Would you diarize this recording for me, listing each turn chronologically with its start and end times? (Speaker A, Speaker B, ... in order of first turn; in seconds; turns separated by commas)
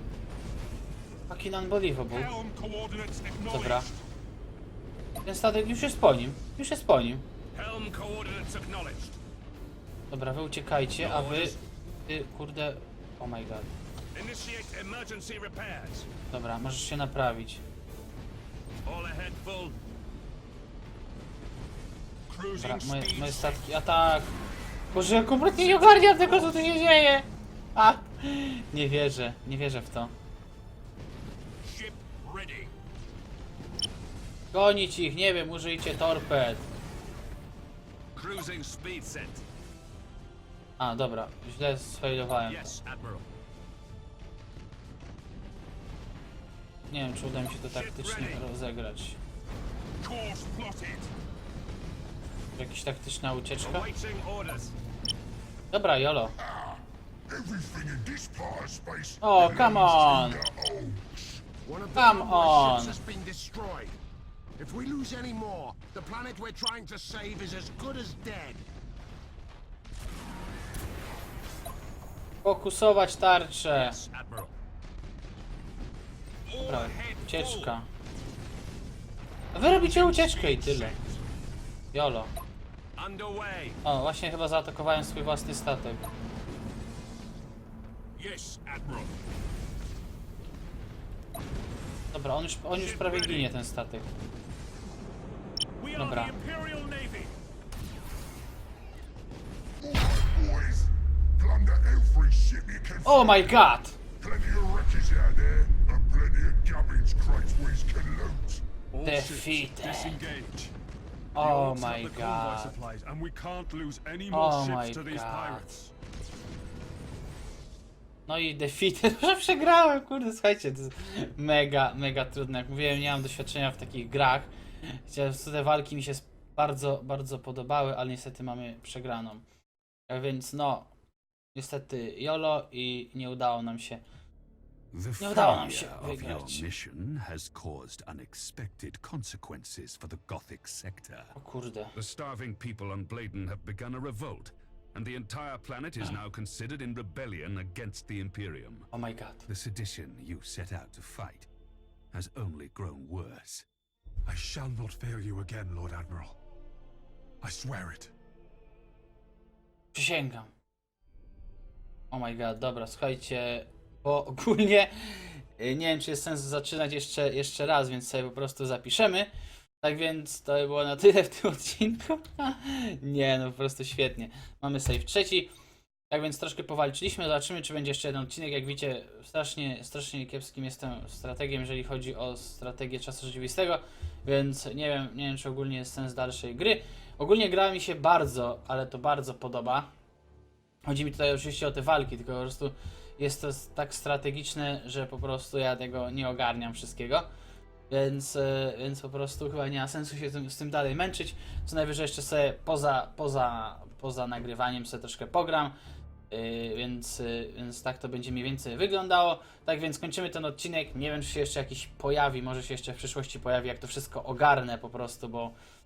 Speaker A: 1.3-2.3, Speaker B: 2.1-3.9, Speaker A: 3.5-3.9, Speaker A: 5.2-7.2, Speaker B: 7.5-9.2, Speaker A: 10.1-13.7, Speaker B: 11.0-11.6, Speaker B: 14.1-16.1, Speaker A: 16.3-17.6, Speaker B: 18.9-19.7, Speaker B: 22.3-23.6, Speaker A: 22.6-24.3, Speaker A: 24.9-30.1, Speaker B: 31.6-32.7, Speaker A: 34.5-36.7, Speaker B: 38.1-39.4, Speaker A: 40.8-42.8, Speaker B: 42.5-43.2, Speaker A: 46.9-49.2, Speaker B: 47.6-48.4, Speaker B: 50.0-51.1, Speaker A: 52.5-53.9, Speaker B: 53.6-54.7, Speaker A: 55.7-56.4, Speaker C: 56.4-61.4, Speaker A: 59.2-60.4, Speaker D: 61.6-64.0, Speaker A: 61.9-63.0, Speaker D: 64.6-68.7, Speaker A: 72.4-74.0, Speaker B: 73.7-74.5, Speaker B: 76.5-77.7, Speaker A: 76.6-77.9, Speaker A: 79.5-81.0, Speaker B: 79.6-81.1, Speaker A: 81.9-82.3, Speaker B: 83.0-83.8, Speaker A: 83.8-86.1, Speaker B: 88.2-89.1, Speaker A: 92.1-94.1, Speaker B: 92.7-93.5, Speaker B: 95.8-97.3, Speaker A: 95.9-96.3, Speaker C: 99.8-103.6, Speaker A: 103.0-104.0, Speaker C: 104.2-108.6, Speaker E: 108.9-110.7, Speaker A: 109.0-110.2, Speaker A: 111.3-112.8, Speaker E: 111.3-115.9, Speaker A: 114.3-115.7, Speaker A: 118.3-129.4, Speaker A: 130.1-130.9, Speaker A: 131.5-134.0, Speaker F: 134.9-141.3, Speaker A: 135.2-136.7, Speaker A: 141.3-141.9, Speaker F: 141.9-148.9, Speaker A: 148.9-149.5, Speaker F: 149.5-151.5, Speaker F: 152.1-153.7, Speaker E: 154.2-156.3, Speaker E: 157.4-158.1, Speaker A: 159.9-160.5, Speaker A: 162.1-169.3, Speaker A: 169.8-175.5, Speaker A: 176.1-189.9, Speaker A: 190.8-197.3, Speaker A: 197.9-205.7, Speaker A: 206.3-215.6